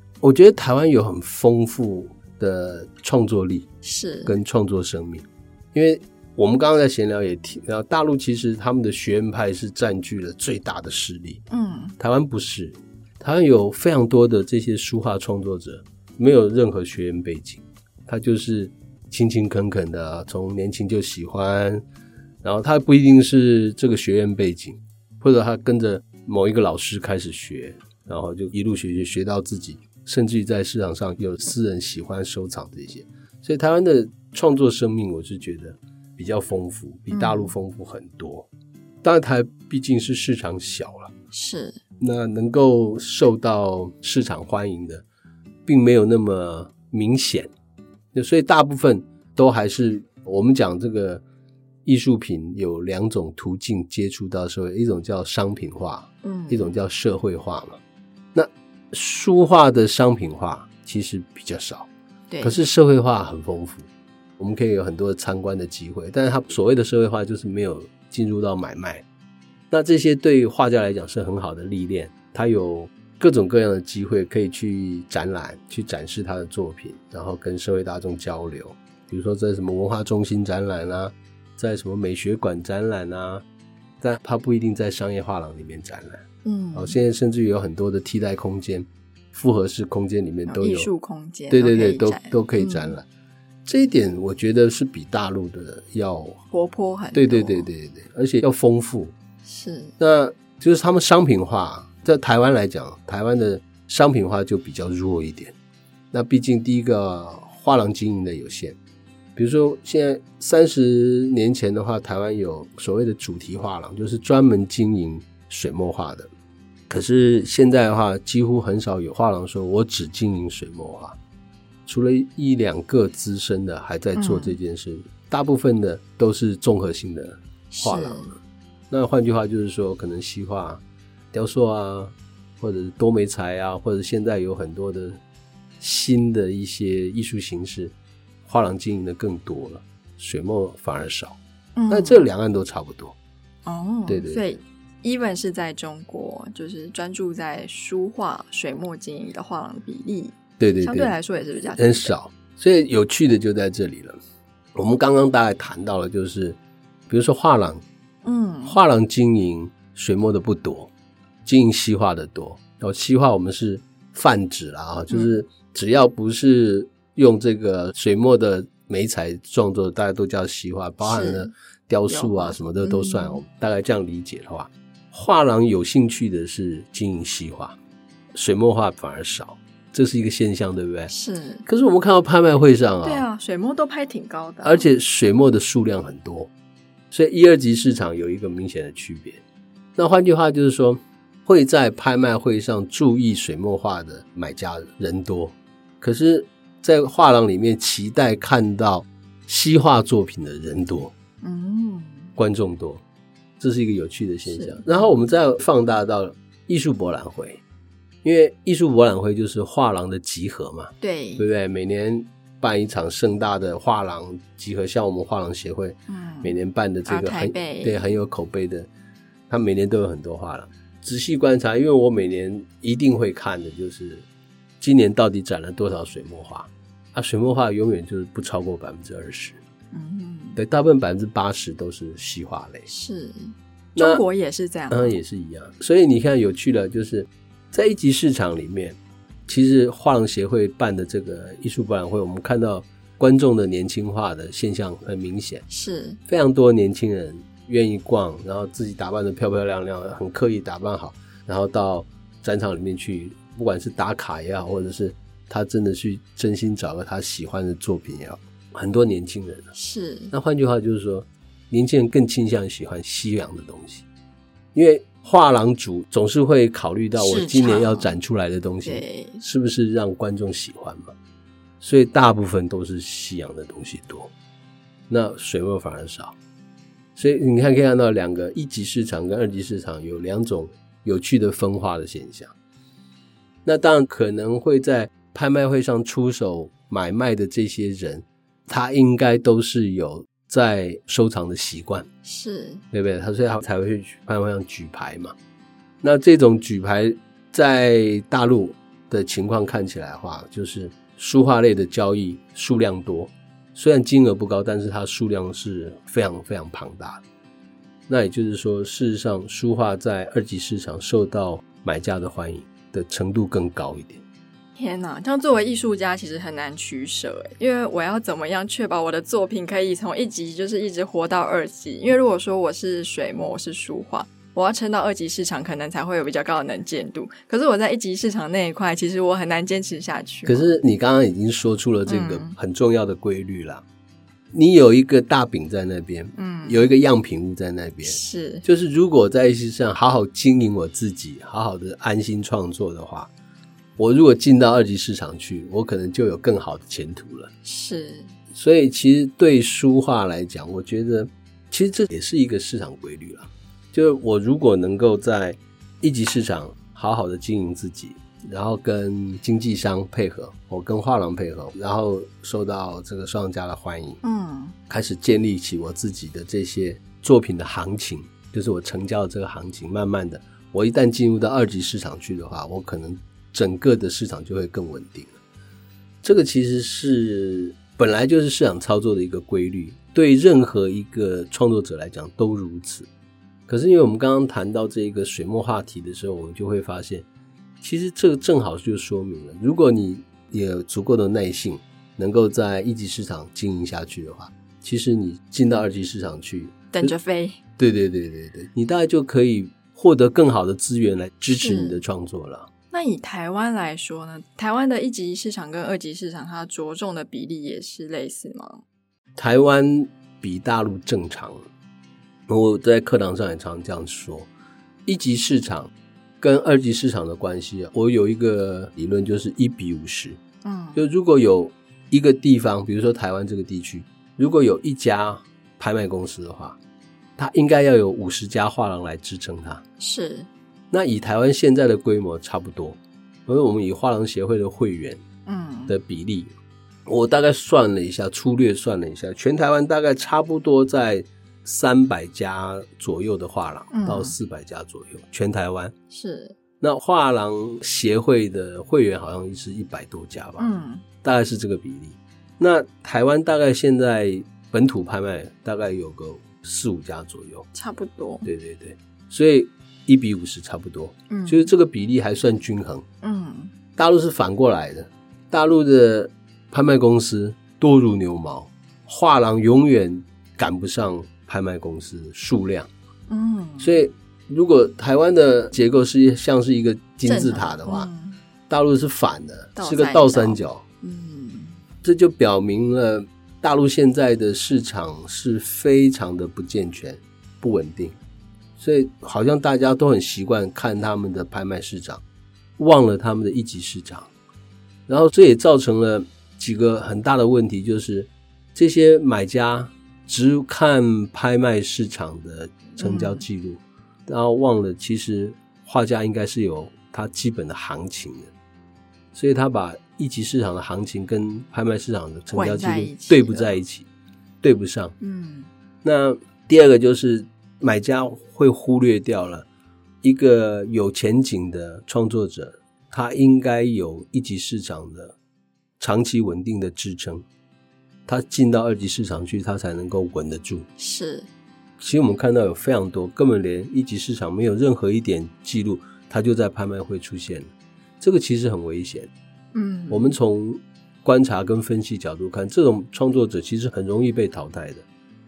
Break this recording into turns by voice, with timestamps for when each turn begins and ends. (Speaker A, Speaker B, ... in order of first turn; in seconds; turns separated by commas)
Speaker A: 0.2-3.7, Speaker B: 3.8-4.4, Speaker A: 4.2-11.4, Speaker B: 11.5-11.9, Speaker A: 12.0-21.8, Speaker A: 22.4-38.5, Speaker B: 37.1-37.5, Speaker A: 39.0-41.1, Speaker B: 41.3-41.8, Speaker A: 42.0-45.0, Speaker A: 45.7-47.5, Speaker A: 48.1-51.2, Speaker A: 51.9-57.8, Speaker B: 56.2-56.7, Speaker A: 58.3-61.9, Speaker B: 62.3-62.6, Speaker A: 62.4-69.0, Speaker A: 69.7-83.4, Speaker A: 84.0-90.9, Speaker B: 86.4-87.0, Speaker B: 90.5-93.0, Speaker A: 91.5-93.0, Speaker A: 93.7-96.4, Speaker B: 96.5-97.7, Speaker A: 97.1-99.1, Speaker B: 99.5-99.9, Speaker A: 100.0-105.5, Speaker A: 106.1-108.8, Speaker A: 109.4-116.3, Speaker A: 116.9-121.2, Speaker A: 121.9-128.4, Speaker B: 124.2-124.6, Speaker B: 127.7-128.3, Speaker A: 128.9-135.2, Speaker A: 135.8-137.9, Speaker A: 138.4-141.4, Speaker B: 141.8-142.2, Speaker A: 141.9-143.2, Speaker B: 143.7-152.1, Speaker A: 144.1-144.4, Speaker A: 150.6-151.2, Speaker A: 151.8-154.2, Speaker A: 154.8-157.8, Speaker B: 158.2-158.8, Speaker A: 158.7-160.9, Speaker A: 161.4-177.8, Speaker B: 171.0-171.5, Speaker B: 172.1-173.4, Speaker A: 178.3-181.1, Speaker B: 181.1-181.7, Speaker A: 181.7-183.3, Speaker B: 183.0-184.9, Speaker A: 184.6-186.5, Speaker A: 187.1-189.4, Speaker A: 190.0-201.1, Speaker B: 201.4-202.4, Speaker A: 202.4-203.0, Speaker A: 203.6-207.6, Speaker B: 204.5-205.1, Speaker A: 208.2-218.9, Speaker B: 211.0-211.5, Speaker B: 216.1-216.6, Speaker B: 217.1-218.2, Speaker A: 219.5-224.3, Speaker A: 224.8-229.6, Speaker B: 229.9-230.6, Speaker A: 230.6-232.9, Speaker B: 232.9-235.2, Speaker A: 233.9-234.2, Speaker A: 234.9-245.7, Speaker B: 245.7-246.2, Speaker A: 246.3-259.7, Speaker B: 259.7-260.3, Speaker A: 260.3-264.0, Speaker A: 264.7-271.1, Speaker B: 267.2-268.1, Speaker B: 268.9-269.4, Speaker A: 271.8-274.3, Speaker A: 275.1-276.4, Speaker A: 277.2-282.5, Speaker A: 283.6-292.1, Speaker B: 292.2-292.8, Speaker A: 292.9-295.3, Speaker A: 296.0-307.2, Speaker A: 308.1-314.2, Speaker B: 314.8-330.8, Speaker A: 330.5-333.8, Speaker B: 332.1-332.6, Speaker A: 334.5-343.3, Speaker B: 336.4-336.9, Speaker B: 338.1-338.6, Speaker A: 344.0-347.5, Speaker B: 347.6-348.4, Speaker A: 348.5-364.2, Speaker B: 364.2-364.8, Speaker A: 364.9-375.4, Speaker A: 376.2-383.1, Speaker A: 383.7-387.3, Speaker A: 387.8-397.1, Speaker B: 396.9-397.6, Speaker A: 397.8-402.7, Speaker B: 401.6-402.0, Speaker B: 402.9-408.8, Speaker A: 409.4-411.7, Speaker A: 412.5-414.5, Speaker A: 415.1-420.4, Speaker B: 420.6-421.0, Speaker A: 420.9-426.8, Speaker A: 427.4-429.8, Speaker B: 430.0-430.5, Speaker A: 430.9-435.2, Speaker B: 435.5-435.9, Speaker A: 435.9-436.5, Speaker A: 437.1-445.9, Speaker B: 443.9-444.4, Speaker B: 446.1-446.6, Speaker A: 446.8-450.7, Speaker B: 450.6-451.0, Speaker A: 451.2-457.7, Speaker B: 457.7-458.5, Speaker A: 458.4-463.1, Speaker B: 461.3-461.7, Speaker B: 463.2-463.7, Speaker A: 464.0-472.9, Speaker B: 473.3-474.0, Speaker A: 473.8-478.1, Speaker B: 477.2-478.4, Speaker A: 478.7-480.8, Speaker B: 479.8-481.8, Speaker A: 482.0-488.2, Speaker A: 488.8-492.2, Speaker A: 492.8-494.3, Speaker A: 495.1-508.5, Speaker B: 503.0-503.4, Speaker A: 509.3-514.1, Speaker B: 512.5-513.8, Speaker A: 514.6-515.1, Speaker B: 515.2-515.7, Speaker A: 516.0-519.7, Speaker A: 520.2-525.4, Speaker A: 526.0-527.5, Speaker A: 528.3-530.9, Speaker B: 531.0-531.5, Speaker A: 532.0-539.3, Speaker B: 539.7-540.4, Speaker A: 540.1-545.0